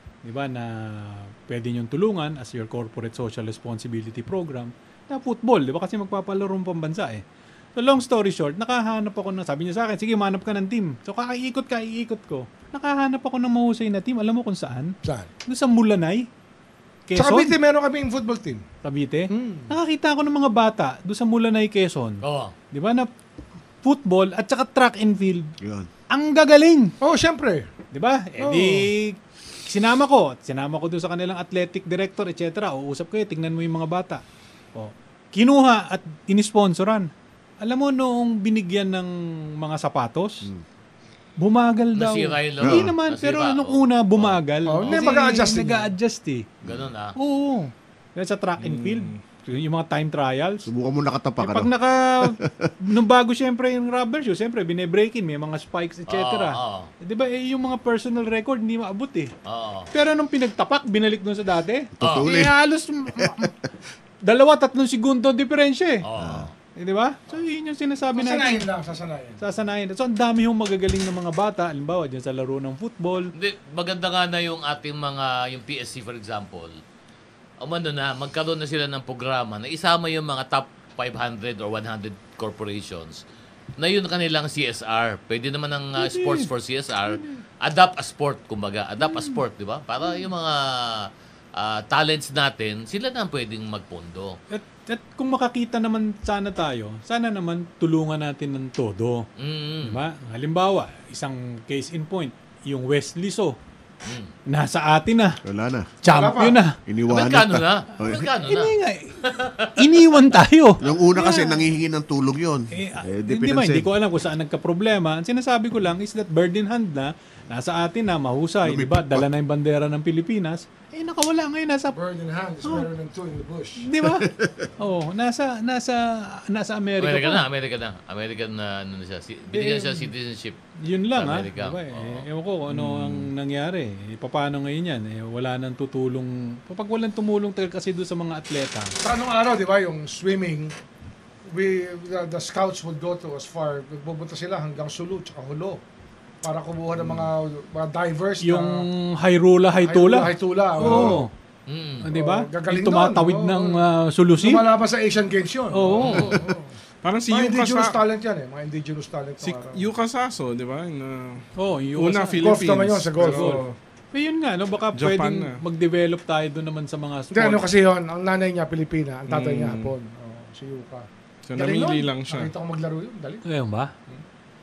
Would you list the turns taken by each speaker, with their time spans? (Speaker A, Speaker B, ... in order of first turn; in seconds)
Speaker A: 0.2-7.2, 7.8-16.3, 17.1-17.6, 18.8-22.2, 22.7-23.1, 23.8-25.5, 26.1-26.9, 27.9-34.2, 34.8-37.1, 37.6-40.5, 41.4-46.5, 47.2-50.7, 51.4-59.3, 59.9-63.5, 64.2-66.0, 66.8-68.6, 69.4-73.3, 86.0-86.5, 87.1-87.4, 89.0-89.4, 94.5-99.3, 99.8-103.6, 104.5-105.4, 106.0-106.8, 108.5-109.2, 109.8-111.6, 112.7-122.0, 123.8-127.4, 129.5-130.1, 130.8-138.9, 148.4-151.3, 152.0-154.7, 155.7-156.3, 161.6-162.7, 163.2-167.7, 173.5-173.9
Speaker B: 15.0-15.3, 17.1-18.6, 19.3-19.7, 27.0-27.7, 28.4-28.9, 44.7-45.9, 68.2-69.4, 106.0-106.6, 121.9-123.9, 139.0-140.7, 141.5-145.8, 146.4-148.9, 149.8-151.2, 152.1-153.8, 154.4-156.7, 157.3-159.9, 162.4-163.7, 167.3-173.4
Speaker C: 22.2-22.5, 42.0-44.4, 46.6-47.1, 56.1-56.9, 59.5-59.9, 62.0-62.3, 66.0-66.5, 73.3-76.8, 77.6-83.2, 83.8-94.4, 99.4-100.0, 104.0-104.3, 107.1-108.7, 109.2-109.7, 127.0-130.6, 131.1-132.2, 151.7-152.1
Speaker D: 25.6-25.9, 42.6-42.9, 46.6-46.9, 50.6-52.7, 62.0-62.5, 63.2-63.5, 66.2-66.5, 105.5-105.9, 106.8-108.3, 110.8-113.9, 118.6-119.3, 124.0-124.7, 132.7-133.3
Speaker E: 48.6-49.2, 150.8-151.2, 156.0-156.4, 157.0-158.0, 159.4-161.4, 162.0-163.7, 164.9-165.6, 169.3-169.9, 171.5-172.5